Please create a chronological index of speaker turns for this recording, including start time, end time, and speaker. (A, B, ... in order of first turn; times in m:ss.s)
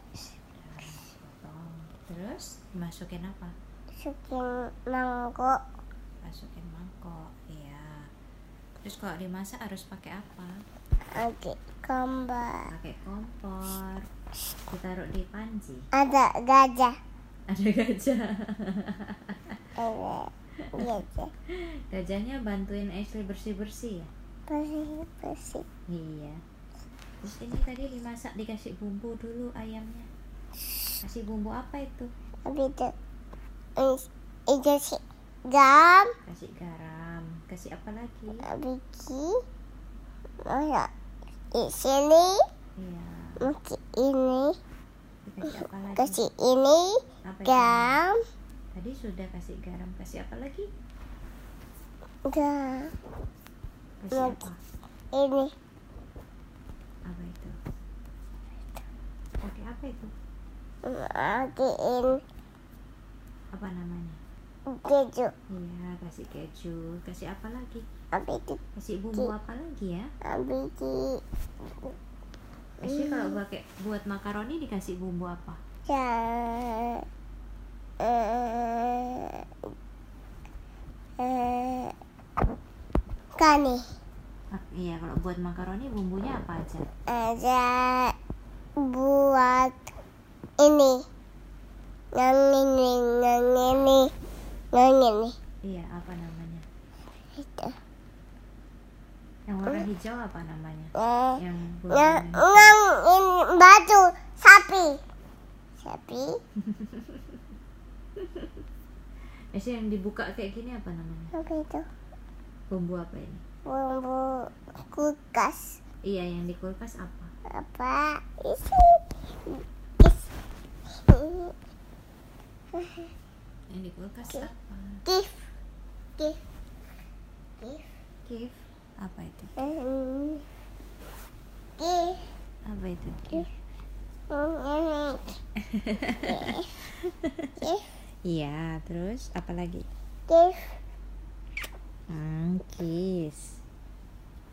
0:00.5-0:03.5 A
0:04.0-0:05.6 B
0:06.2-0:08.1 A
0:08.8-0:10.5 A
0:11.2-0:12.6 B
0:12.7-0:14.0 A
0:14.7-0:15.9 A
0:16.0-0:16.9 B
0:17.5-0:19.6 A
0:19.8-0:21.3 B
0:21.5-0:24.1 A
0:24.5-0:25.6 B
0:25.9-0:26.4 A
0:27.2-0:30.1 A
0:31.0-0:32.1 A
0:32.5-0:32.9 B
0:33.8-0:36.1 B
0:36.3-0:38.5 A
0:38.5-0:39.4 B
0:40.4-0:40.9 B
0:41.5-0:42.4 B
0:42.8-0:43.5 A
0:43.4-0:44.6 B
0:45.2-0:46.3 A
0:46.0-0:48.2 B
0:47.3-0:48.0 A
0:48.7-0:50.7 A
0:52.3-0:52.9 B
0:54.0-0:54.6 A
0:54.1-0:54.4 B
0:55.1-0:55.5 B
0:57.1-0:57.6 A
0:59.4-1:00.1 A
1:00.8-1:02.2 B
1:03.5-1:04.2 A
1:04.7-1:05.3 B
1:05.5-1:07.8 A
1:08.1-1:08.6 B
1:08.8-1:10.1 A
1:10.2-1:11.2 B
1:12.8-1:13.4 B
1:12.8-1:15.6 A
1:15.9-1:17.0 B
1:18.0-1:19.4 B
1:21.2-1:22.0 B
1:23.4-1:23.8 B
1:24.5-1:26.9 A
1:27.1-1:28.2 B
1:28.8-1:29.9 B
1:30.6-1:31.0 B
1:32.1-1:34.1 B
1:34.7-1:35.4 B
1:35.6-1:36.7 A
1:37.4-1:37.8 B
1:39.5-1:42.8 A
1:41.0-1:41.4 B
1:41.9-1:45.0 B
1:45.8-1:46.4 B
1:46.6-1:47.3 A
1:48.2-1:48.5 A
1:49.5-1:51.3 A
1:51.4-1:51.9 B
1:52.7-1:53.4 A
1:53.7-1:55.8 B
1:56.0-1:57.3 A
1:57.5-2:00.3 B
2:01.1-2:01.5 B
2:02.8-2:03.1 B
2:03.7-2:05.0 A
2:05.1-2:05.4 B
2:07.6-2:07.8 B
2:08.3-2:09.6 A
2:09.6-2:10.5 B
2:11.8-2:12.2 B
2:12.7-2:13.5 A
2:14.3-2:15.3 B
2:15.6-2:17.6 A
2:16.2-2:16.7 B
2:17.6-2:17.9 B
2:18.3-2:19.9 A
2:20.3-2:20.7 B
2:22.1-2:23.6 A